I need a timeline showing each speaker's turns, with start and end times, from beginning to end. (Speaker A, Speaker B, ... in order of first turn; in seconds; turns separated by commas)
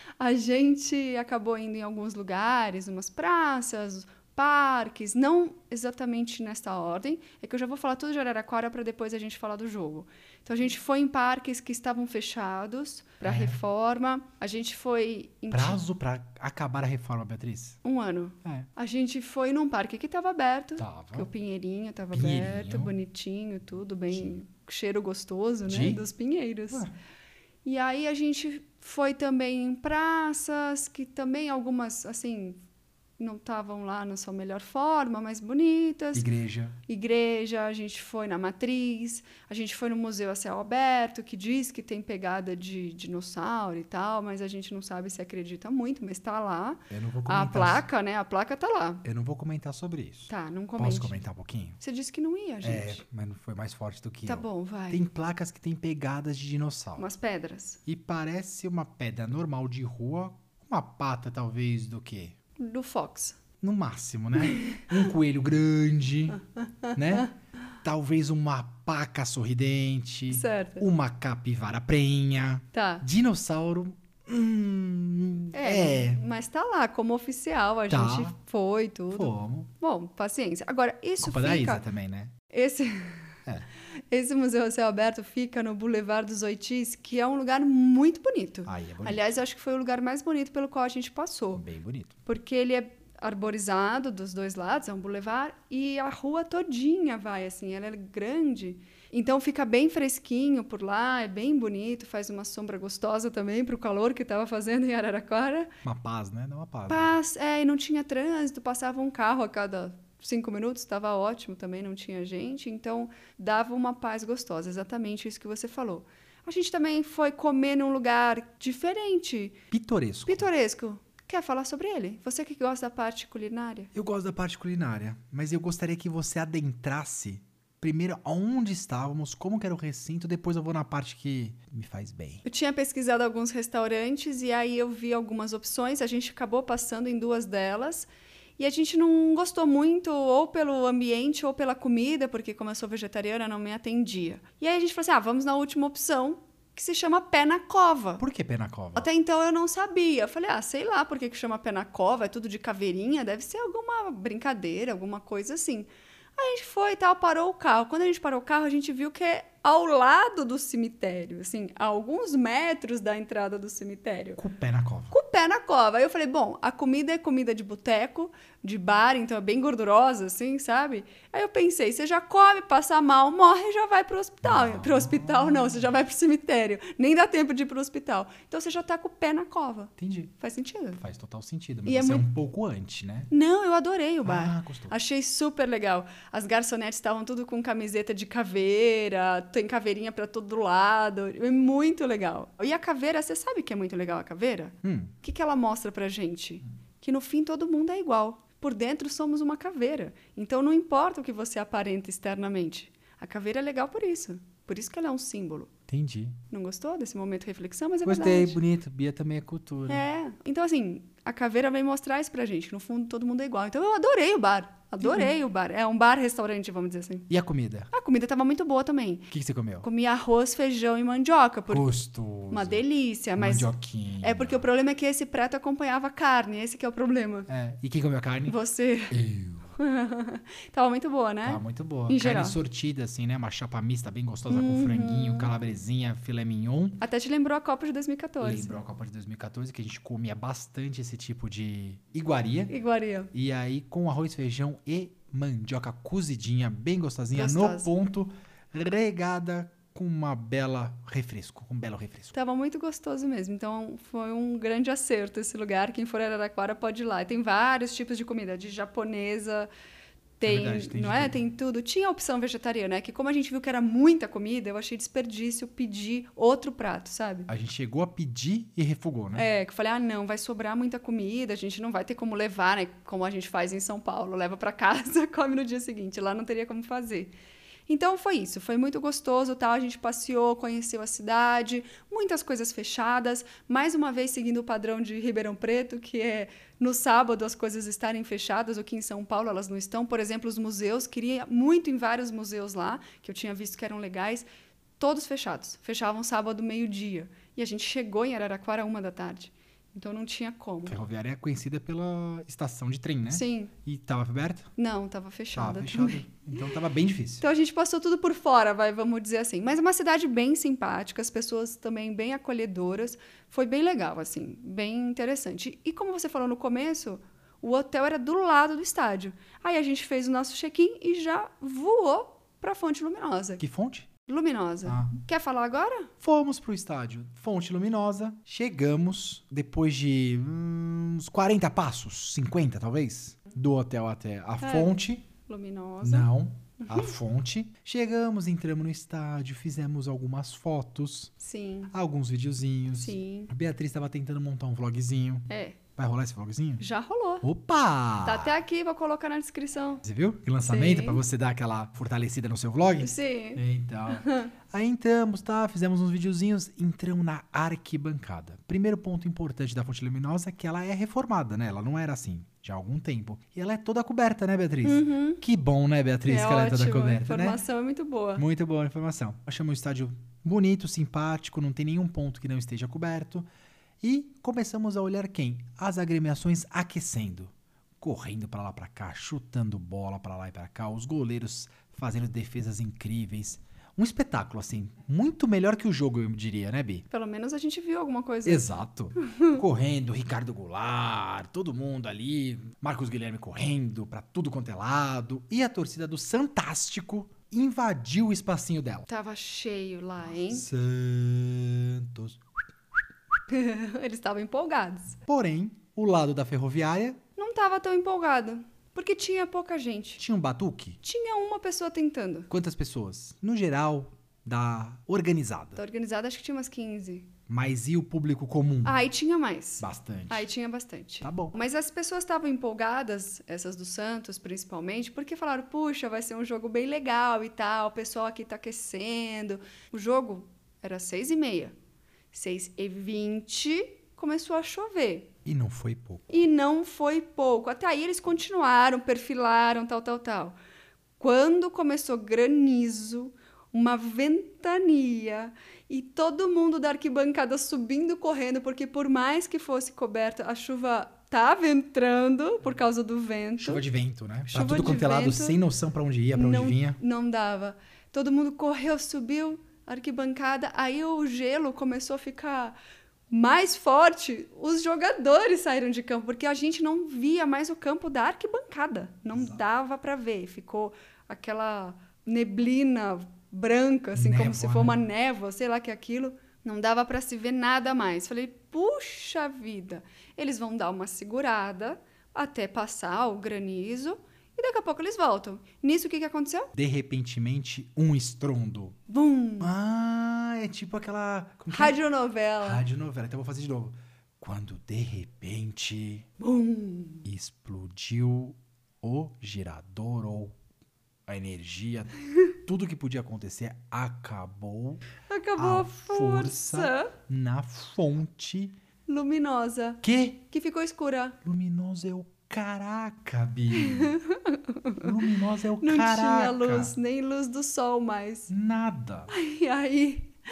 Speaker A: 0.2-15.8, Speaker B: 13.2-13.6, Speaker B: 15.5-17.8, Speaker A: 17.8-26.9, Speaker B: 20.8-21.3, Speaker B: 22.1-22.9, Speaker B: 25.7-26.0, Speaker A: 27.6-32.6, Speaker A: 33.2-36.3, Speaker B: 36.1-36.8, Speaker A: 36.9-49.0, Speaker B: 46.9-47.9, Speaker B: 49.0-51.8, Speaker A: 50.3-51.2, Speaker A: 51.8-53.0, Speaker B: 52.6-57.1, Speaker A: 54.2-55.0, Speaker A: 57.0-57.8, Speaker B: 57.9-62.4, Speaker A: 62.6-63.4, Speaker B: 63.6-66.4, Speaker A: 64.4-64.9, Speaker A: 66.6-67.3, Speaker B: 66.9-67.3, Speaker B: 67.8-76.2, Speaker A: 70.3-70.9, Speaker A: 72.7-73.0, Speaker A: 75.5-81.8, Speaker B: 77.9-78.3, Speaker B: 79.1-79.7, Speaker B: 81.2-82.3, Speaker A: 82.5-83.4, Speaker A: 84.1-91.6, Speaker B: 88.7-89.3, Speaker B: 91.5-92.1, Speaker A: 92.2-105.7, Speaker B: 105.8-107.2, Speaker A: 106.9-119.6, Speaker B: 119.7-120.5, Speaker A: 120.2-123.9, Speaker B: 123.9-132.4, Speaker A: 132.4-148.2, Speaker B: 148.2-149.1, Speaker A: 148.9-164.4, Speaker B: 164.4-165.1, Speaker A: 165.1-181.0, Speaker B: 174.4-175.9, Speaker B: 180.0-180.3, Speaker B: 180.9-183.3, Speaker A: 181.9-182.3, Speaker A: 183.3-205.7, Speaker B: 184.2-184.9, Speaker B: 194.8-195.1, Speaker B: 205.9-206.4, Speaker A: 206.5-208.6, Speaker B: 208.0-210.0, Speaker A: 209.9-217.3, Speaker B: 215.0-215.3, Speaker B: 217.3-217.9, Speaker A: 217.9-219.3, Speaker B: 219.3-219.9, Speaker A: 219.8-221.9, Speaker B: 221.7-222.8, Speaker A: 222.5-223.7, Speaker B: 223.4-224.7, Speaker A: 224.2-227.5, Speaker B: 227.5-228.6, Speaker A: 228.5-229.2, Speaker B: 229.1-229.7, Speaker A: 229.8-232.6, Speaker B: 231.4-237.0, Speaker A: 234.5-235.5, Speaker A: 237.0-238.8, Speaker B: 238.4-242.7, Speaker A: 242.7-243.3, Speaker B: 243.3-252.3, Speaker A: 247.3-247.9, Speaker A: 252.3-259.7, Speaker A: 260.4-267.5, Speaker B: 260.4-261.4, Speaker B: 267.5-269.4, Speaker A: 269.4-277.3, Speaker A: 277.9-294.4, Speaker A: 295.0-301.0, Speaker B: 300.9-304.7, Speaker A: 303.3-303.7, Speaker A: 304.8-306.2, Speaker B: 305.5-307.4, Speaker A: 307.4-323.6, Speaker B: 323.6-324.1, Speaker A: 324.3-326.1, Speaker B: 324.9-325.1, Speaker B: 326.2-335.2, Speaker A: 334.6-337.1, Speaker B: 336.0-341.3, Speaker A: 341.4-341.9, Speaker B: 341.9-346.9, Speaker A: 342.9-343.5, Speaker A: 345.5-345.8, Speaker A: 346.8-347.4, Speaker B: 347.4-348.6, Speaker A: 348.2-350.0, Speaker B: 350.0-367.6, Speaker A: 350.6-351.2, Speaker A: 353.0-354.5, Speaker A: 364.8-365.4, Speaker A: 366.2-368.4, Speaker B: 368.4-373.5, Speaker B: 374.0-387.1, Speaker A: 387.1-388.7, Speaker B: 388.4-399.1, Speaker A: 389.2-389.6, Speaker A: 399.1-400.7, Speaker B: 400.5-402.4, Speaker A: 403.5-405.2, Speaker B: 405.2-407.2, Speaker A: 407.4-410.2, Speaker B: 410.2-411.0, Speaker A: 411.0-412.5, Speaker B: 412.5-415.8, Speaker A: 415.8-417.3, Speaker B: 417.5-419.0, Speaker A: 418.9-431.8, Speaker B: 419.8-420.5, Speaker B: 421.2-421.6, Speaker A: 432.3-435.3, Speaker B: 435.4-436.3, Speaker A: 436.3-440.6, Speaker A: 441.2-453.8, Speaker B: 453.6-457.0, Speaker A: 454.5-455.6, Speaker A: 456.3-462.8, Speaker A: 463.3-486.7, Speaker B: 474.1-475.0, Speaker B: 486.7-489.0, Speaker A: 489.1-489.7, Speaker B: 489.6-492.0, Speaker A: 491.7-492.8, Speaker B: 492.6-496.3, Speaker A: 496.4-497.2, Speaker B: 497.2-500.6, Speaker B: 501.3-505.0, Speaker A: 505.2-507.1, Speaker B: 505.6-508.8, Speaker A: 509.1-511.4, Speaker B: 510.0-510.4, Speaker B: 511.4-514.2, Speaker A: 513.7-515.1, Speaker B: 515.0-516.9, Speaker A: 515.8-518.5, Speaker B: 518.5-519.3, Speaker A: 519.3-520.3